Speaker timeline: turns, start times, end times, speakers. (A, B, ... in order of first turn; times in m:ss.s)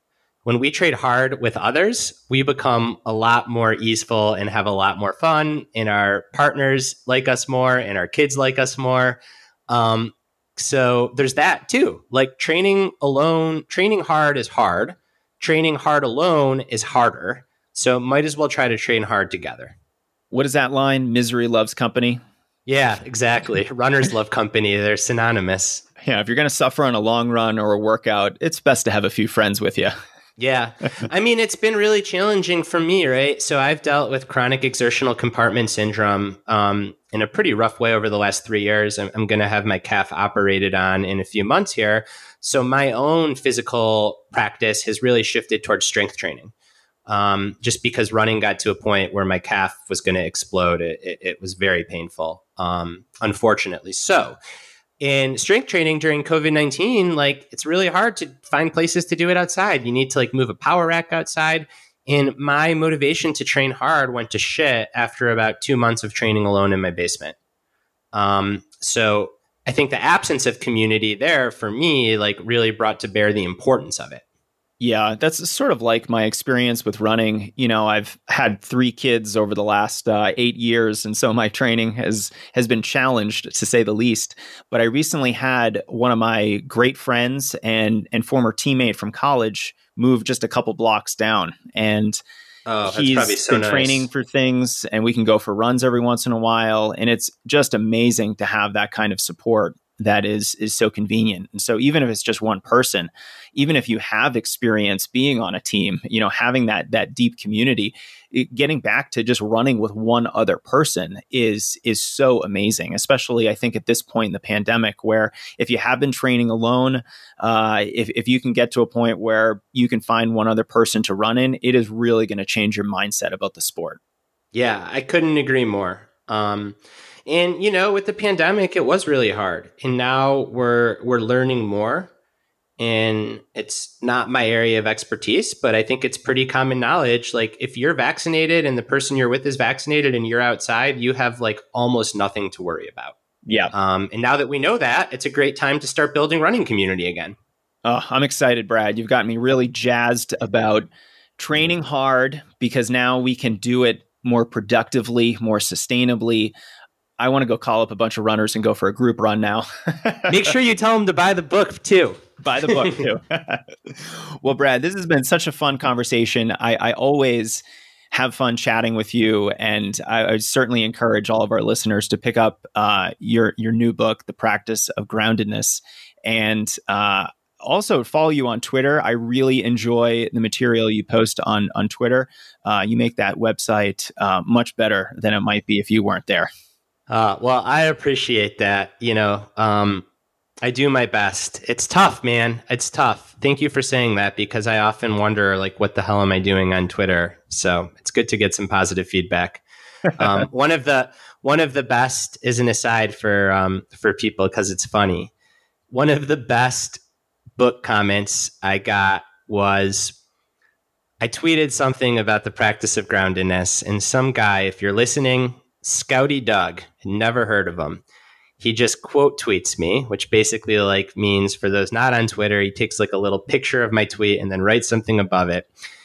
0:00.4-0:19.8 A
0:20.3-0:22.2 B
0:22.7-0:25.8 A
0:26.0-0:29.9 B
0:30.4-0:46.5 A
0:47.1-0:54.4 A
0:55.0-1:07.4 A
1:08.1-1:14.2 A
1:14.8-1:32.2 B
1:32.7-1:34.1 A
1:32.9-2:04.0 B
2:04.5-2:12.1 A
2:12.8-2:23.2 A
2:23.5-2:23.7 B
2:23.7-2:27.4 A
2:27.8-2:36.5 B
2:37.2-2:40.5 B
2:40.3-2:43.0 A
2:42.4-3:06.5 B
3:07.1-3:10.0 A
3:10.6-3:19.6 A
3:20.2-3:25.3 A
3:25.9-3:27.0 A
3:27.6-3:30.2 A
3:31.2-3:38.0 A
3:38.6-3:45.7 A